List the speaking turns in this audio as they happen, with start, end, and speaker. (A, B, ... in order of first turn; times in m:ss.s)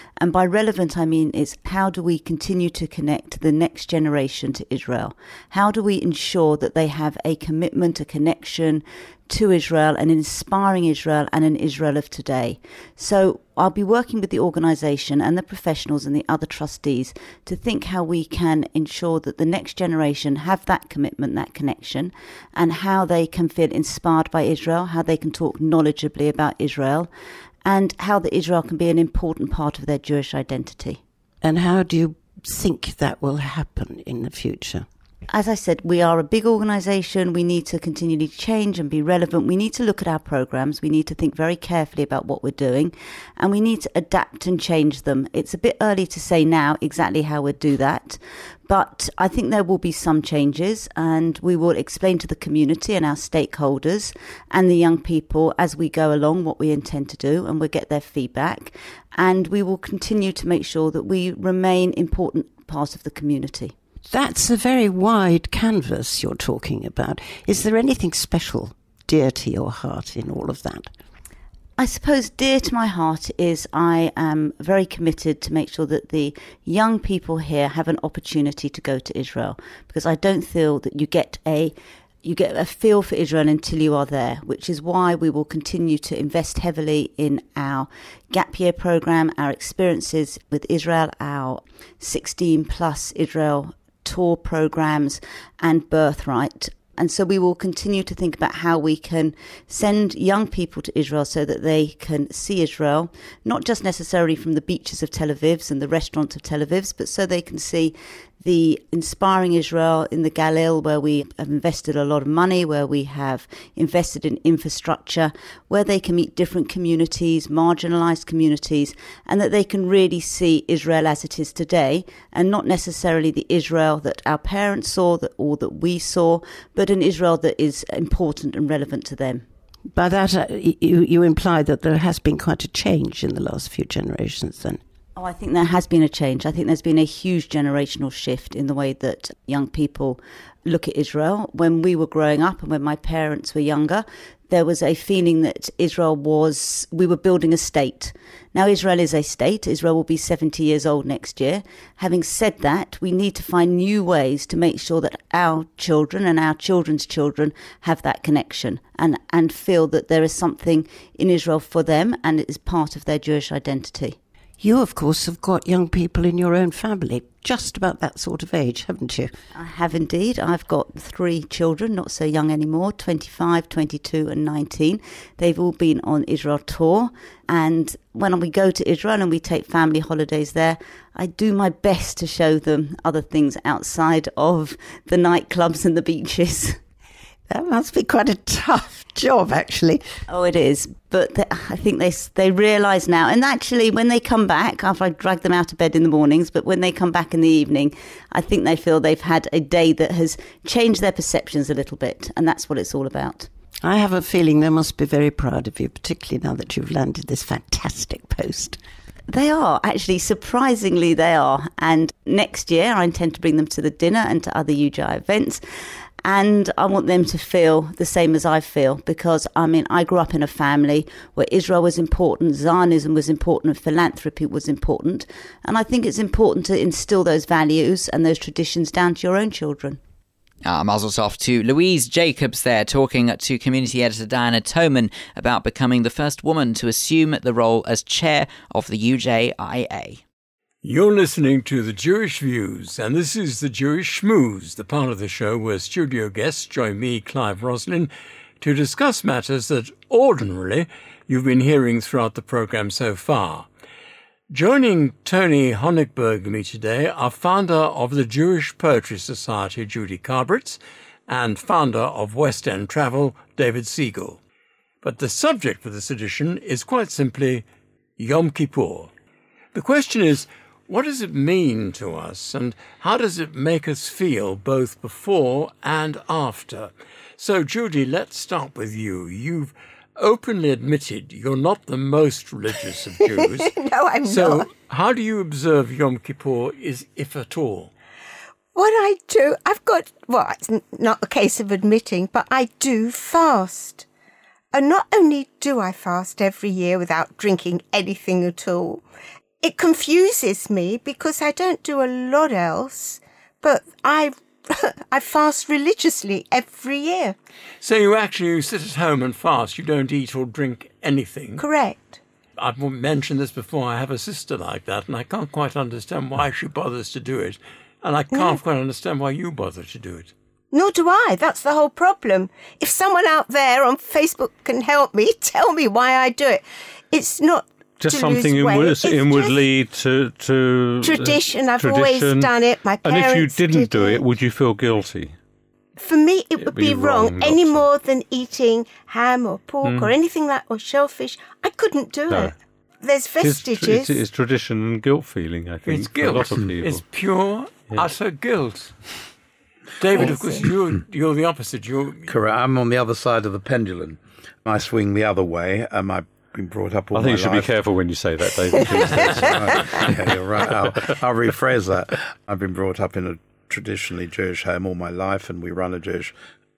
0:00.2-0:27.1 A
0:27.6-0:31.0 A
0:31.4-0:34.9 B
0:35.3-1:03.7 A
1:04.1-1:10.9 B
1:11.8-2:09.4 A
2:09.9-2:14.8 B
2:15.2-2:44.2 A
2:44.6-2:49.3 B
2:49.5-3:06.8 A
3:07.5-3:10.0 B
3:10.3-3:23.5 A
3:23.8-3:28.8 B
3:29.3-3:35.6 A
3:36.2-3:50.0 A
3:50.6-4:00.2 C
4:00.8-4:13.7 D
4:14.5-4:24.4 D
4:25.0-4:27.6 D
4:28.2-4:29.1 D
4:29.7-4:43.7 D
4:43.6-4:44.7 E
4:44.3-4:47.9 D
4:48.7-4:54.0 E
4:54.7-4:59.0 E
4:59.6-5:07.4 E
5:07.8-5:11.6 D
5:11.6-5:12.2 E
5:12.6-5:20.3 D
5:18.3-5:18.6 E
5:20.7-5:29.6 E
5:28.0-5:35.3 F
5:31.0-5:34.2 E
5:36.0-5:44.2 E
5:36.6-5:37.8 F
5:39.8-5:40.1 F
5:43.4-5:47.0 F
5:45.8-5:48.9 D
5:50.0-5:52.3 D
5:50.1-5:50.7 E
5:52.3-5:57.7 G
5:57.1-6:00.3 F
5:58.8-5:59.0 E
5:59.2-6:06.3 G